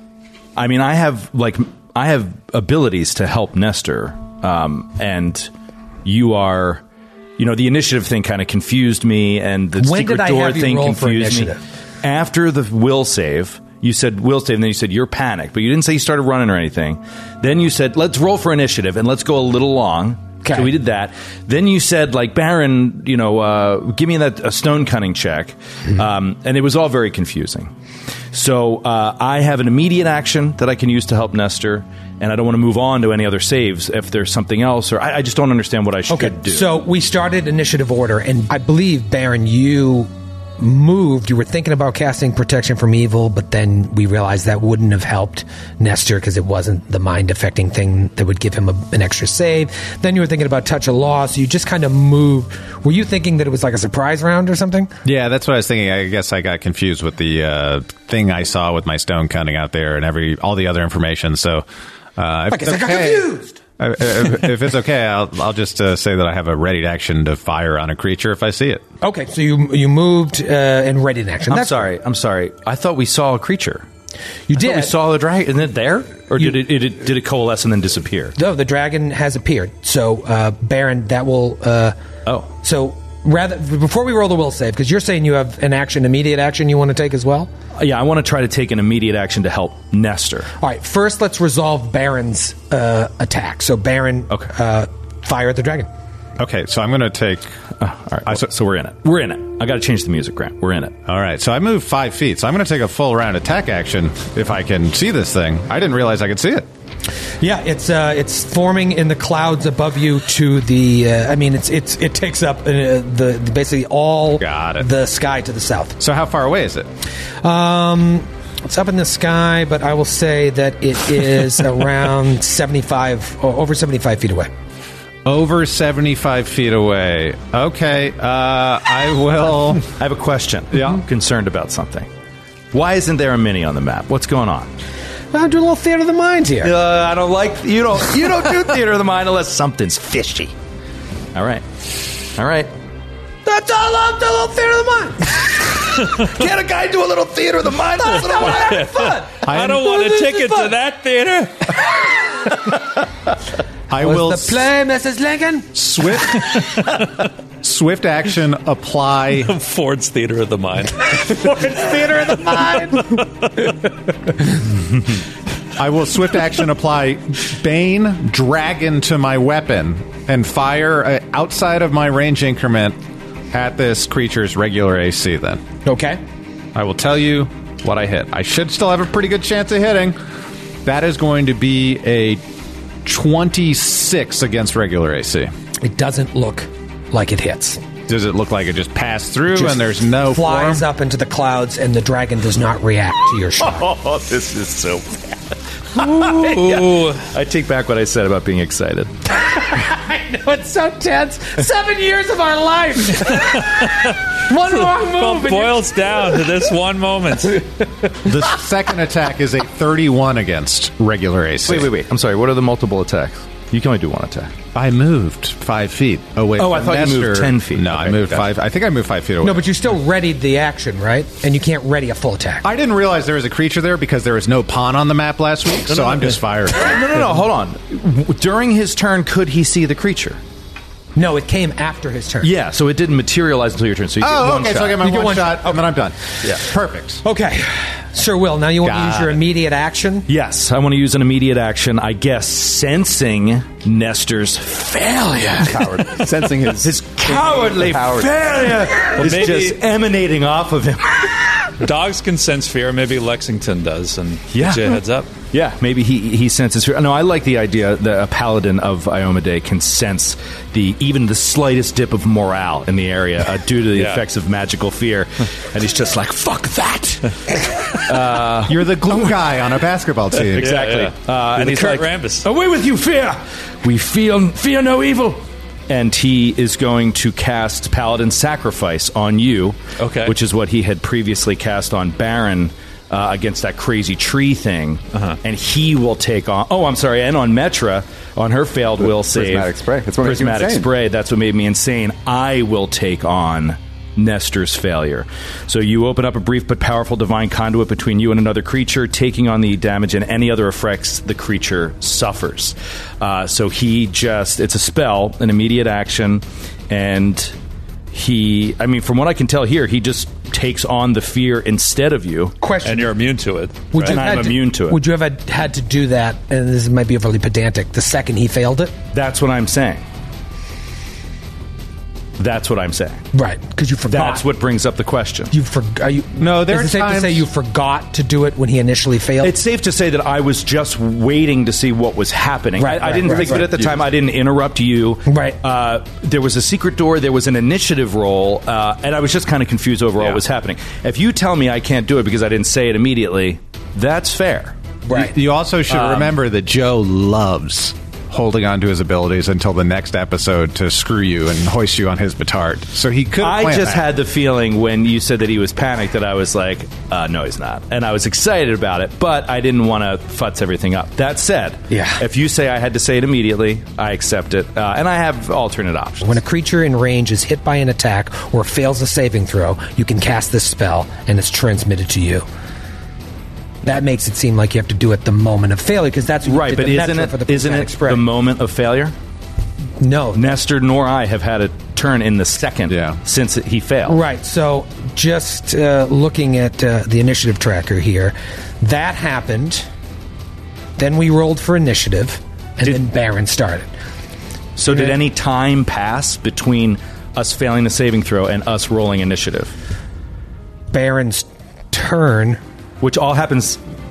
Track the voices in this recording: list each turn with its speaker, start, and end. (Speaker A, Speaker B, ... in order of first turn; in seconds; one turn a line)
Speaker A: 0.6-5.5
Speaker A: 6.0-6.8
Speaker A: 7.4-27.7
Speaker B: 9.8-11.6
Speaker B: 20.4-20.7
Speaker A: 28.3-36.7
Speaker B: 36.1-54.9
Speaker C: 55.0-61.6
Speaker C: 62.2-68.8
Speaker B: 62.5-63.6
Speaker B: 69.0-71.9
Speaker A: 71.5-73.8
Speaker B: 74.5-74.9
Speaker A: 74.5-78.3
Speaker B: 78.3-82.0
Speaker B: 82.6-87.5
Speaker A: 87.8-90.5
Speaker B: 90.6-95.9
Speaker C: 96.4-97.5
Speaker A: 97.8-100.9
Speaker C: 101.1-106.7
Speaker B: 107.4-116.0
Speaker C: 114.4-114.9
Speaker C: 116.0-116.9
Speaker B: 117.4-124.5
Speaker C: 125.2-129.9
Speaker A: 130.0-132.1
Speaker C: 130.7-131.0
Speaker A: 132.7-134.7
Speaker B: 135.3-136.7
Speaker A: 136.6-140.5
Speaker A: 141.3-141.7
Speaker A: 142.3-142.7
Speaker B: 143.4-145.6
Speaker A: 146.1-148.6
Speaker B: 148.0-150.7
Speaker D: 148.3-151.8
Speaker C: 149.4-149.9
Speaker C: 153.9-154.7
Speaker B: 154.0-155.7
Speaker C: 155.7-157.0
Speaker C: 157.6-159.5
Speaker D: 159.4-163.8
Speaker B: 161.3-163.0
Speaker C: 165.8-173.0
Speaker C: 173.5-175.6
Speaker B: 175.8-176.2
Speaker C: 176.7-180.2
Speaker C: 180.8-182.4
Speaker C: 183.0-185.5
Speaker B: 185.8-187.8
Speaker C: 188.1-190.8
Speaker B: 189.5-193.9
Speaker A: 193.6-195.3
Speaker A: 195.9-199.1
Speaker D: 195.9-197.3
Speaker B: 199.5-206.4
Speaker D: 203.3-207.6
Speaker C: 208.2-211.9
Speaker A: 211.7-214.5
Speaker C: 214.7-219.7
Speaker A: 216.6-218.5
Speaker B: 219.4-222.6
Speaker C: 222.6-227.1
Speaker A: 226.7-230.4
Speaker B: 231.2-232.5
Speaker A: 232.4-235.0
Speaker C: 234.2-237.2
Speaker B: 235.0-235.8
Speaker B: 237.2-240.2
Speaker C: 238.8-239.4
Speaker A: 240.3-246.3
Speaker E: 245.6-248.7
Speaker A: 246.8-251.7
Speaker D: 249.1-249.8
Speaker D: 251.8-255.3
Speaker A: 254.5-269.3
Speaker D: 263.9-264.2
Speaker C: 268.6-270.7
Speaker D: 270.5-272.5
Speaker A: 270.6-289.7
Speaker D: 280.0-280.4
Speaker D: 285.1-285.4
Speaker E: 289.0-290.9
Speaker A: 290.2-307.5
Speaker A: 308.1-312.6
Speaker B: 312.6-313.1
Speaker D: 312.8-314.2
Speaker B: 313.9-318.9
Speaker A: 313.9-315.0
Speaker A: 319.1-320.0
Speaker A: 322.4-323.2
Speaker B: 323.3-324.4
Speaker A: 324.1-325.5
Speaker B: 325.5-329.5
Speaker C: 326.4-327.4
Speaker A: 329.4-344.7
Speaker B: 332.8-333.7
Speaker E: 333.3-334.0
Speaker B: 335.3-335.6
Speaker B: 345.1-345.3
Speaker C: 345.1-354.0
Speaker A: 345.9-346.3
Speaker A: 353.4-366.4
Speaker B: 361.9-362.2
Speaker B: 366.2-372.4
Speaker B: 373.8-378.2
Speaker A: 376.4-379.1
Speaker B: 380.0-380.6
Speaker A: 380.3-384.2
Speaker C: 382.9-383.2
Speaker B: 384.1-389.9
Speaker B: 391.0-393.9
Speaker A: 394.8-399.7
Speaker B: 394.9-395.2
Speaker B: 400.9-402.6
Speaker A: 403.0-403.8